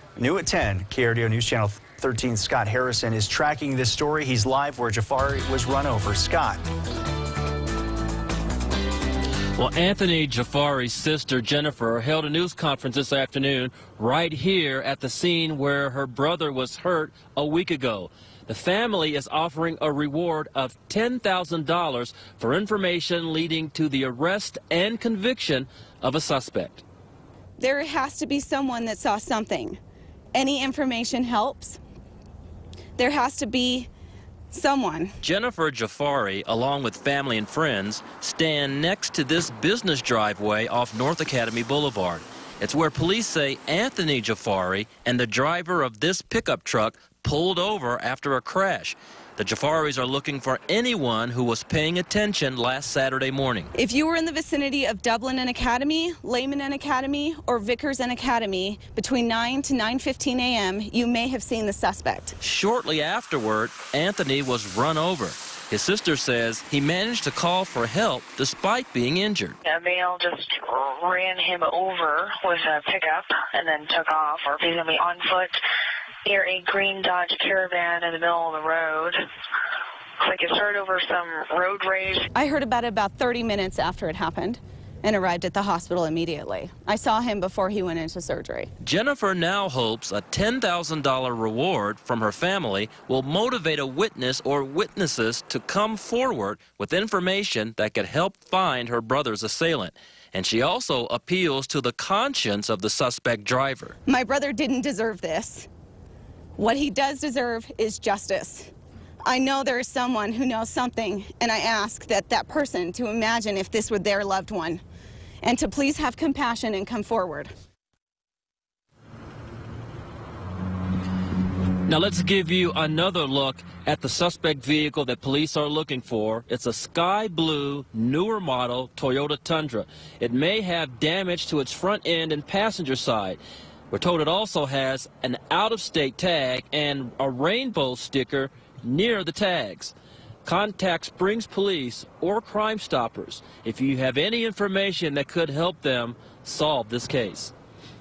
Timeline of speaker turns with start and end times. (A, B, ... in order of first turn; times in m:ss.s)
0:00.2-0:06.6 A
0:09.6-0:26.8 B
0:27.6-0:29.8 C
0:30.4-0:31.8 C
0:33.0-0:33.9 C
0:34.5-0:35.2 C
0:35.2-0:53.7 B
0:53.7-1:02.4 C
1:02.4-1:09.6 B
1:09.6-1:15.6 D
1:16.2-1:19.2 D
1:20.2-1:22.3 D
1:22.4-1:28.7 C
1:28.8-1:44.0 B
1:44.1-1:45.7 C
1:46.6-1:48.7 C
1:49.3-1:54.8 C
1:55.4-1:57.5 C
2:01.9-2:19.9 B
2:20.4-2:27.5 B